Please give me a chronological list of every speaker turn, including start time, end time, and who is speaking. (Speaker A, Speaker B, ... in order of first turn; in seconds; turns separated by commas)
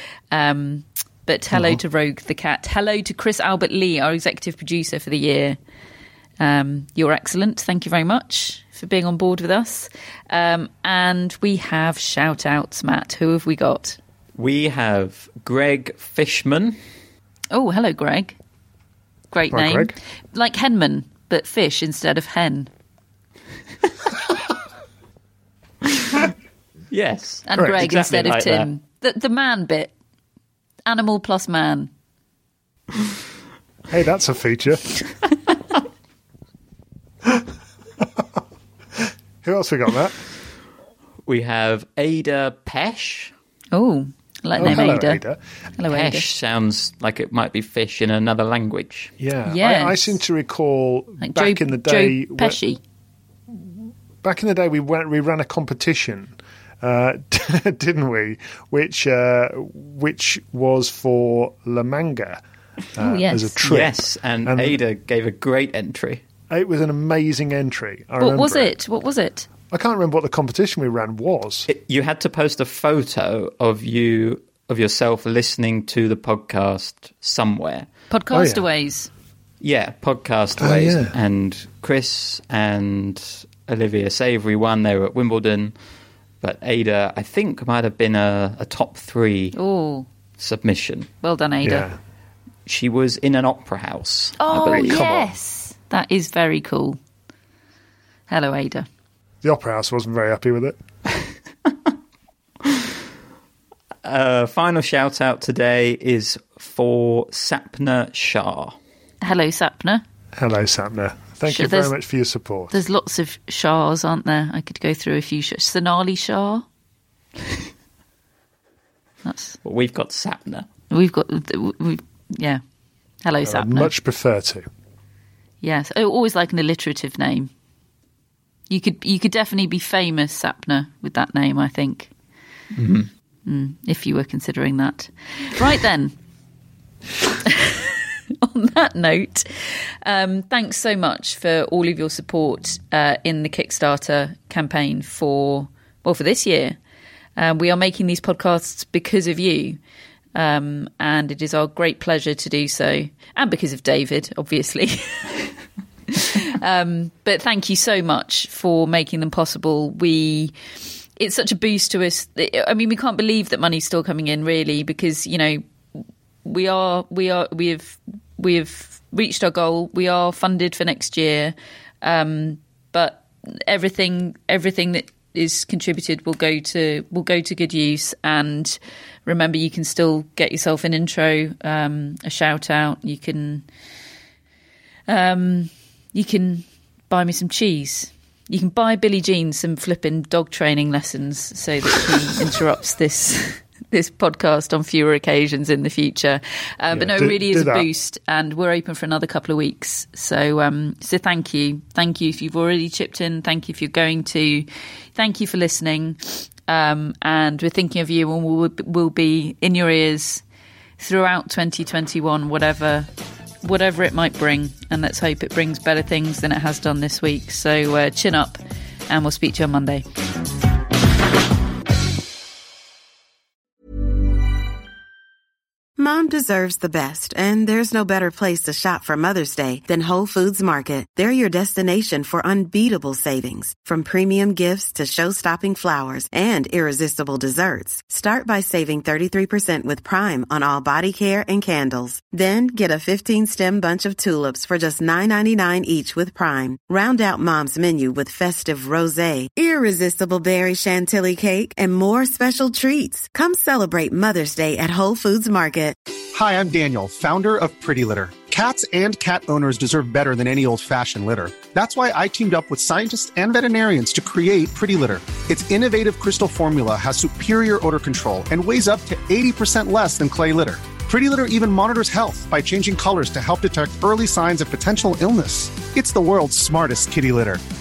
Speaker A: 0.3-5.6, Speaker B: 1.5-1.8, Speaker A: 6.4-14.0, Speaker C: 14.4-16.8, Speaker A: 17.5-18.4, Speaker A: 19.3-22.7, Speaker B: 19.5-19.9, Speaker C: 25.9-26.2, Speaker C: 26.9-28.7, Speaker A: 27.5-29.9, Speaker A: 30.9-31.9, Speaker B: 33.9-34.8, Speaker B: 39.4-40.2, Speaker C: 41.3-43.3, Speaker A: 43.7-45.2, Speaker B: 44.6-45.4, Speaker A: 45.8-46.3, Speaker C: 45.9-49.1, Speaker B: 49.2-52.6, Speaker A: 49.5-50.2, Speaker A: 51.2-52.8, Speaker B: 53.5-62.4, Speaker B: 63.0-64.8, Speaker A: 63.0-63.6, Speaker C: 63.6-66.2, Speaker B: 66.5-68.7, Speaker A: 68.2-69.5, Speaker B: 69.7-71.7, Speaker C: 71.7-77.9, Speaker A: 78.1-79.1, Speaker B: 78.3-78.7, Speaker C: 79.6-85.7, Speaker B: 80.6-81.1, Speaker C: 86.4-89.6, Speaker A: 89.5-90.1, Speaker C: 90.4-91.1, Speaker A: 91.2-91.9, Speaker B: 91.6-92.0, Speaker C: 92.7-95.3, Speaker A: 94.4-97.0, Speaker A: 98.3-98.9, Speaker B: 99.4-100.8, Speaker C: 104.0-108.8, Speaker A: 109.2-110.0, Speaker B: 110.3-112.8, Speaker A: 111.5-112.0, Speaker A: 112.7-116.7, Speaker A: 119.2-119.6, Speaker C: 119.6-120.7, Speaker A: 120.9-122.6, Speaker A: 123.2-123.9, Speaker B: 123.5-124.7, Speaker A: 125.6-127.5, Speaker A: 128.7-132.1, Speaker C: 132.8-133.1, Speaker A: 133.5-136.2, Speaker A: 137.4-146.8, Speaker A: 147.4-149.8, Speaker A: 150.3-155.5, Speaker A: 156.1-160.6, Speaker A: 161.2-183.7, Speaker A: 185.1-210.4, Speaker B: 196.9-197.9, Speaker A: 211.0-213.1, Speaker A: 213.6-220.1, Speaker D: 226.0-255.9, Speaker E: 256.3-277.6